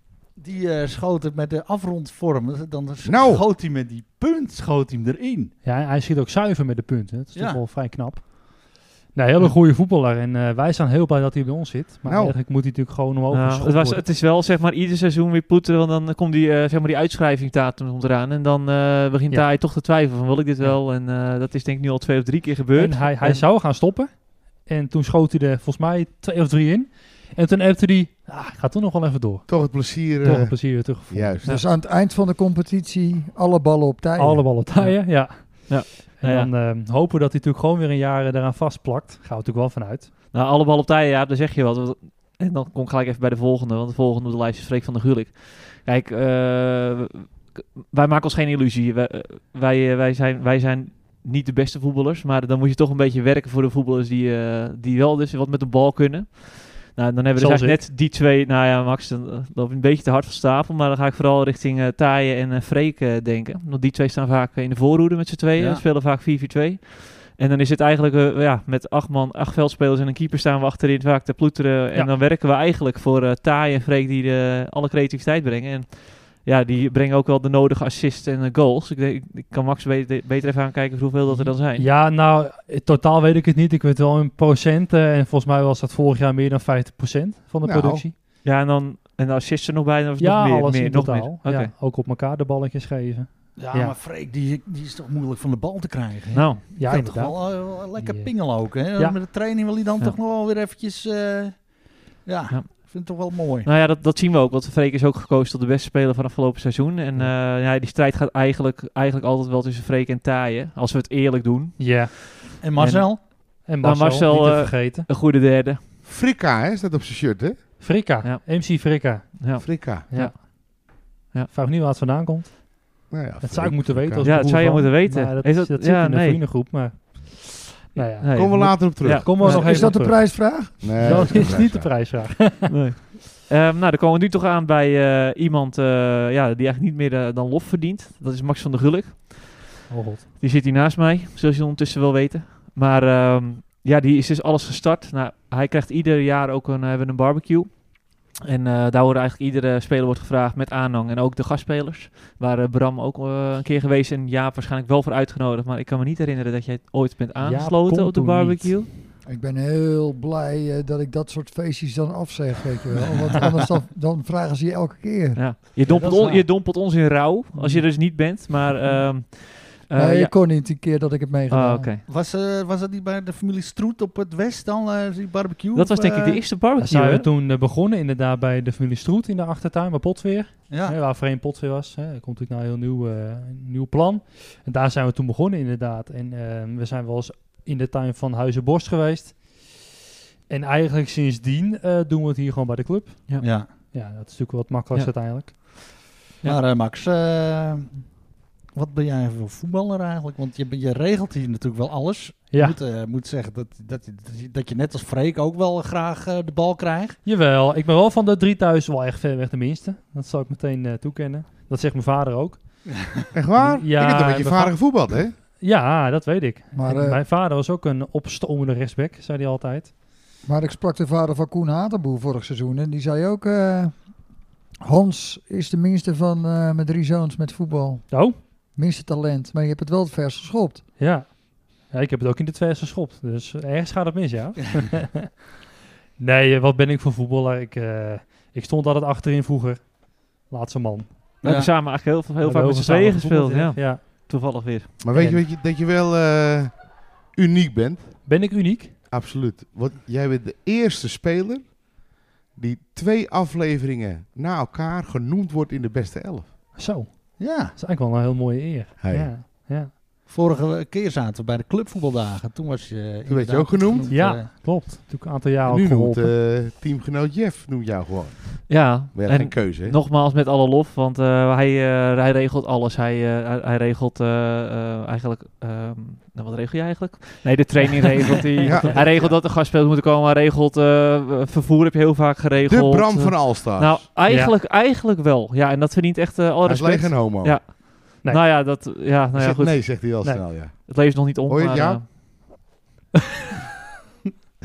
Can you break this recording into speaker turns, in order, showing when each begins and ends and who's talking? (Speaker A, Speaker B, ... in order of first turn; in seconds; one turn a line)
Speaker A: 0.3-5.5
Speaker B: 3.0-3.4
Speaker C: 5.6-14.0
Speaker A: 7.3-7.6
Speaker B: 12.1-12.4
Speaker D: 13.3-23.4
Speaker C: 19.3-19.6
Speaker C: 22.7-31.4
Speaker B: 29.5-31.5
Speaker E: 31.4-34.5
Speaker C: 34.2-40.1
Speaker D: 34.7-36.5
Speaker D: 40.3-81.9
Speaker C: 57.4-57.8
Speaker A: 65.5-65.8
Speaker C: 81.3-88.1
Speaker B: 87.6-88.0
Speaker D: 88.4-91.7
Speaker C: 90.2-93.9
Speaker A: 93.6-103.7
Speaker D: 96.3-96.7
Speaker C: 96.7-99.2
Speaker D: 102.5-115.8
Speaker C: 111.8-112.1
Speaker A: 112.6-113.2
Speaker C: 113.6-115.1
Speaker B: 116.0-117.7
Speaker C: 117.8-120.5
Speaker D: 118.2-120.4
Speaker B: 119.6-120.1
Speaker C: 121.5-132.7
Speaker B: 123.1-124.3
Speaker D: 124.2-126.6
Speaker D: 128.2-130.0
Speaker B: 128.3-129.4
Speaker E: 129.4-131.6
Speaker B: 130.8-131.9
Speaker D: 132.7-139.8
Speaker C: 139.9-140.2
Speaker D: 140.4-158.9
Speaker C: 157.4-158.8
Speaker E: 159.2-166.2
Speaker D: 165.3-170.3
Speaker A: 165.9-166.4
Speaker C: 167.5-167.9
Speaker E: 169.9-171.9
Speaker D: 171.5-172.0
Speaker A: 172.1-176.4
Speaker D: 175.7-177.3
Speaker C: 176.8-189.8
Speaker A: 180.7-181.0
Speaker C: 190.5-195.9
Speaker D: 193.3-193.6
Speaker A: 193.4-193.7
Speaker D: 194.9-195.9
Speaker A: 196.4-198.0
Speaker A: 198.7-207.2
Speaker C: 202.5-202.8
Speaker C: 207.2-212.8
Speaker B: 213.3-215.3
Speaker C: 213.6-219.9
Speaker E: 216.7-217.2
Speaker E: 220.4-224.3
Speaker E: 224.8-230.8
Speaker C: 228.1-228.4
Speaker C: 231.0-235.3
Speaker C: 236.2-241.4
Speaker D: 241.4-245.0
Speaker A: 241.4-241.7
Speaker C: 242.4-244.1
Speaker B: 245.0-248.4
Speaker C: 245.1-245.4
Speaker C: 248.2-248.9
Speaker B: 249.1-256.5
Speaker C: 256.8-259.9
Speaker A: 257.4-257.8
Speaker B: 259.0-259.3
Speaker A: 260.3-264.5
Speaker B: 263.3-264.3
Speaker C: 264.1-266.3
Speaker B: 265.6-270.0
Speaker D: 268.7-290.1
Speaker C: 278.6-279.0
Speaker B: 278.6-279.3
Speaker B: 282.6-284.1
Speaker C: 284.2-284.5
Speaker B: 286.6-287.6
Speaker B: 289.3-292.0
Speaker C: 290.0-290.7
Speaker D: 290.7-292.1